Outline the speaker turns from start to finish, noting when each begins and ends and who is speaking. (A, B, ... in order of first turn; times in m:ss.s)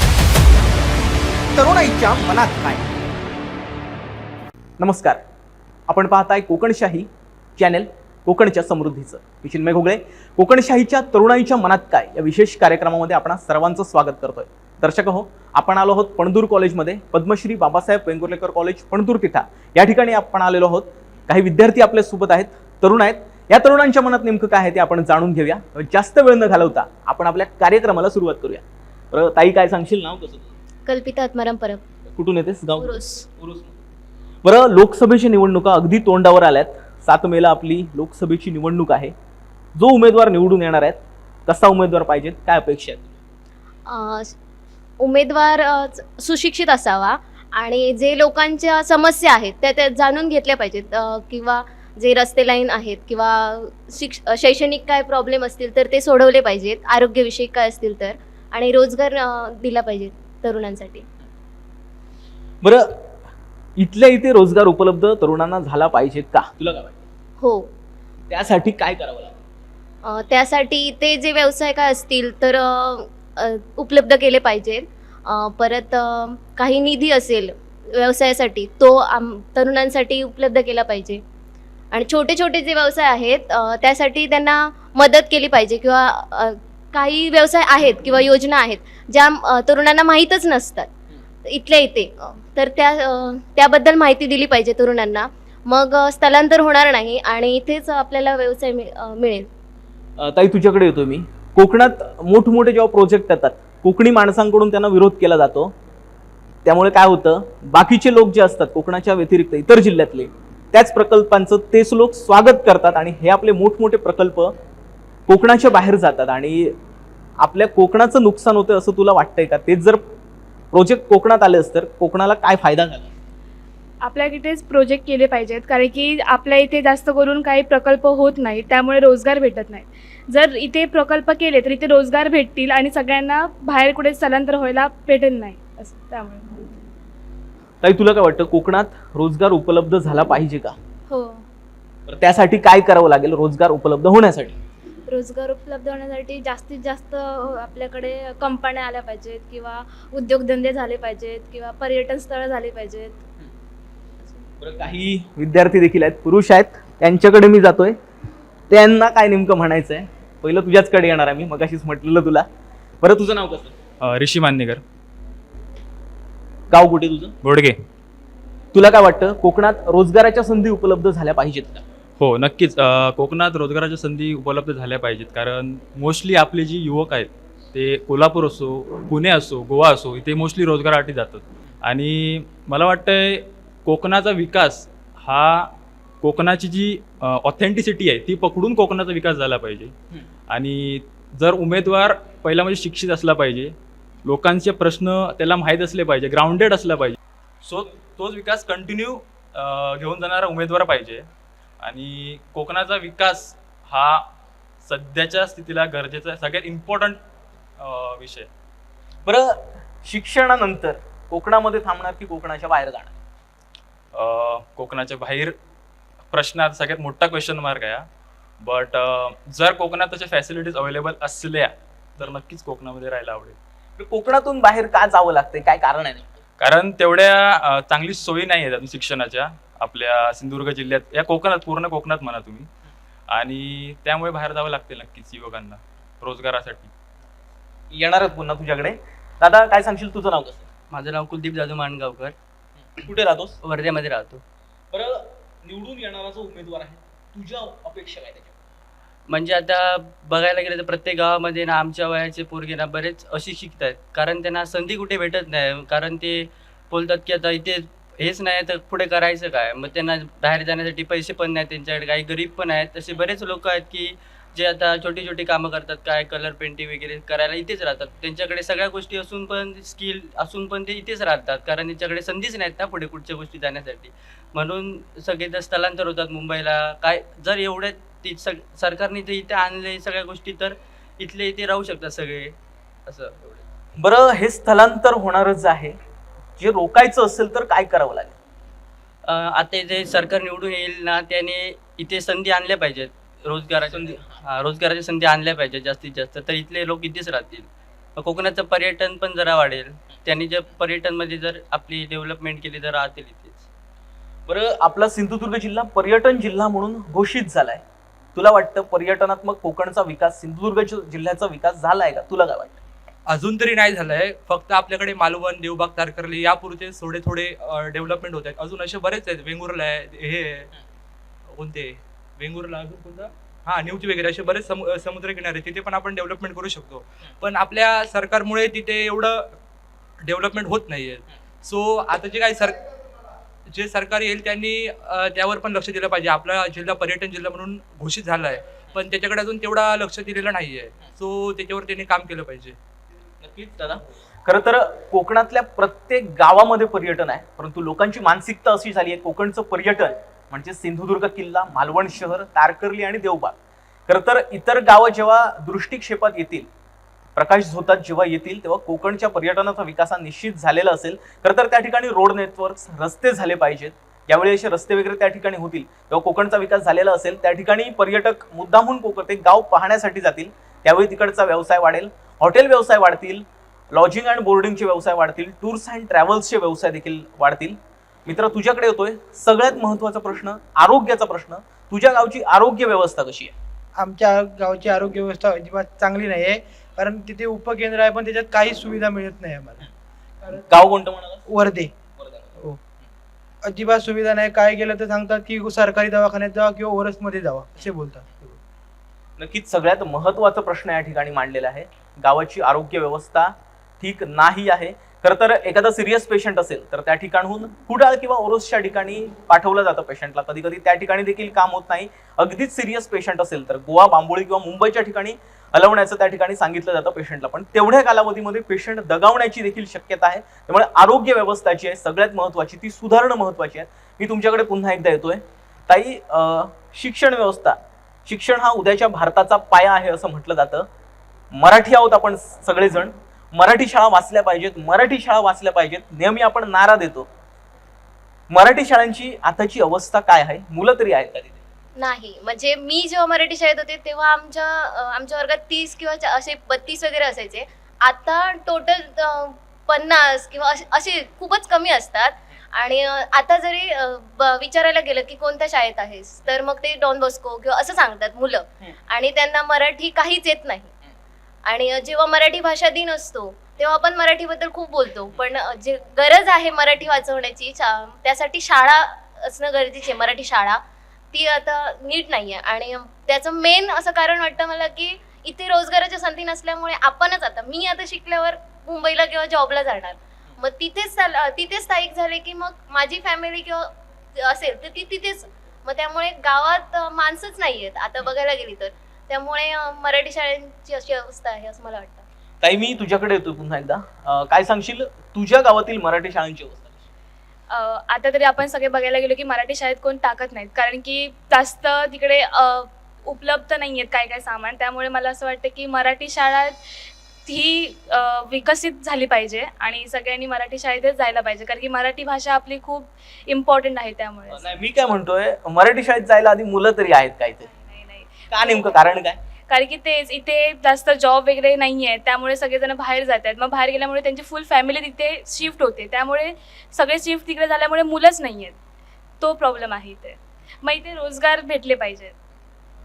0:01.6-0:02.9 A
0:04.8-0:05.2 A
0:05.9-0:30.6 A
0:30.9-0:31.8 B
0:32.1-0:33.8 A
0:32.8-0:33.2 B
0:34.4-0:39.1 A
0:39.8-0:43.2 A
0:43.9-0:44.4 B
0:45.0-1:01.0 B
1:02.6-1:03.0 A
1:03.8-1:07.0 A
1:07.4-1:07.7 B
1:08.3-1:09.4 A
1:10.0-1:21.2 B
1:21.9-1:30.9 B
1:31.4-1:39.5 B
1:40.2-1:45.7 A
1:46.6-1:54.5 A
1:55.3-1:56.8 A
1:57.4-2:00.0 A
2:00.7-2:03.1 A
2:04.0-2:16.6 C
2:17.8-2:20.8 A
2:22.1-2:24.6 A
2:25.1-2:33.2 C
2:34.6-2:38.0 A
2:38.7-2:42.5 A
2:43.0-2:43.8 A
2:44.0-2:44.8 D
2:46.7-2:47.3 A
2:47.4-2:47.8 D
2:48.7-2:51.8 A
2:52.2-3:05.7 D
3:06.2-3:09.9 D
3:10.5-3:21.3 D
3:21.8-3:24.3 D
3:24.8-3:27.2 D
3:27.8-3:28.5 D
3:29.3-3:33.2 A
3:34.1-3:35.6 D
3:36.3-3:38.1 D
3:38.6-3:43.6 D
3:44.0-3:46.4 A
3:46.6-3:52.7 D
3:53.3-3:56.9 D
3:57.9-4:00.7 A
4:00.9-4:02.3 E
4:02.9-4:03.6 A
4:03.6-4:04.4 E
4:04.9-4:08.5 A
4:09.3-4:42.5 E
4:43.1-4:43.6 E
4:44.0-4:46.0 A
4:46.6-4:48.4 A
4:49.3-4:57.7 E
4:53.9-4:54.4 A
4:58.2-5:03.6 E
5:04.5-5:07.8 A
5:08.4-5:12.8 A
5:13.3-5:20.7 F
5:21.5-5:29.6 F
5:30.2-5:32.8 F
5:33.7-5:42.8 F
5:43.4-5:53.6 A
5:54.1-5:56.7 A
5:57.4-6:23.5 A
6:24.0-6:29.9 G
6:30.7-6:31.4 A
6:31.5-6:31.9 G
6:32.2-6:32.6 A
6:33.6-6:38.6 G
6:39.4-7:10.9 A
7:11.5-7:17.3 A
7:18.5-7:21.6 A
7:22.0-7:40.9 B
7:41.7-7:50.8 B
7:51.3-8:12.2 B
8:12.6-8:17.1 A
8:17.7-8:26.8 C
8:27.4-8:34.7 C
8:34.5-8:37.7 A
8:37.6-8:39.0 C
8:38.5-8:39.4 A
8:39.7-8:48.8 C
8:49.4-8:52.3 C